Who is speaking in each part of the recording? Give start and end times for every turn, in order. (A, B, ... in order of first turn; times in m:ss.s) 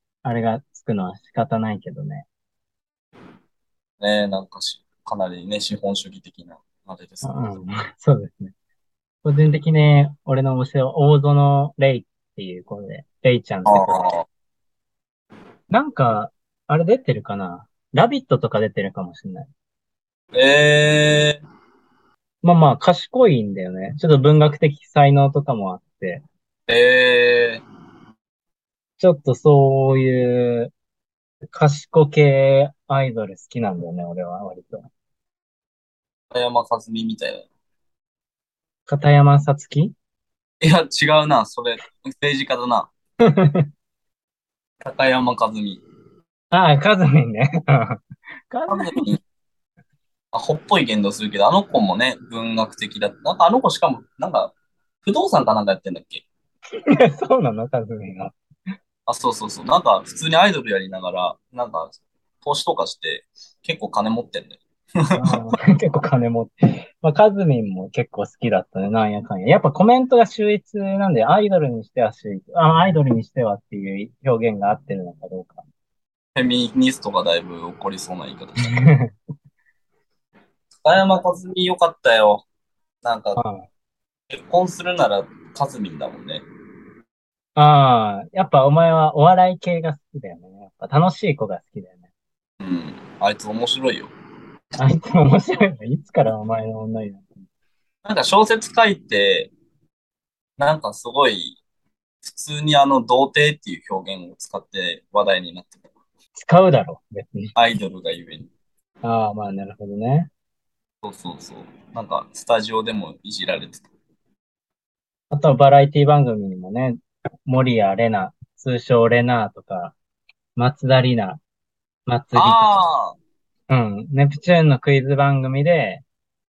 0:00.2-0:02.2 A
0:04.0-0:07.4 B
0:07.2-0:08.5 A
0:09.2-0:14.0 A
0:13.6-0:14.2 B
0:15.7-0:19.5 A
0:20.3-0:21.4 B
0:22.4-0:26.2 A
0:26.7-0:27.6 B
0:29.0-0:30.7 A
0:31.5-0:34.8 A
0:36.3-0:37.4 B
0:38.9-0:39.9 A
0:40.6-0:42.9 B
0:43.2-0:43.6 A
0:44.8-0:45.8 B
0:46.5-0:49.2 A
0:48.7-0:49.2 B
0:50.3-0:56.2 B
0:56.9-0:58.3 A
0:59.1-1:05.5 B
1:05.1-1:15.6 A
1:16.3-1:18.8 B
1:18.7-1:19.1 A
1:20.8-1:22.4 B
1:23.0-1:23.4 B
1:23.4-1:23.7 A
1:24.3-1:26.4 B
1:27.6-1:32.0 A
1:32.6-1:34.1 B
1:34.8-1:37.3 A
1:38.0-1:39.5 B
1:40.6-1:41.6 B
1:42.2-1:45.8 B
1:46.3-1:47.5 A
1:47.5-1:48.5 B
1:49.0-1:50.3 A
1:51.0-1:53.8 B
1:55.3-1:59.9 A
2:00.6-2:01.4 A
2:02.0-2:02.9 A
2:02.3-2:03.2 B
2:03.7-2:06.0 A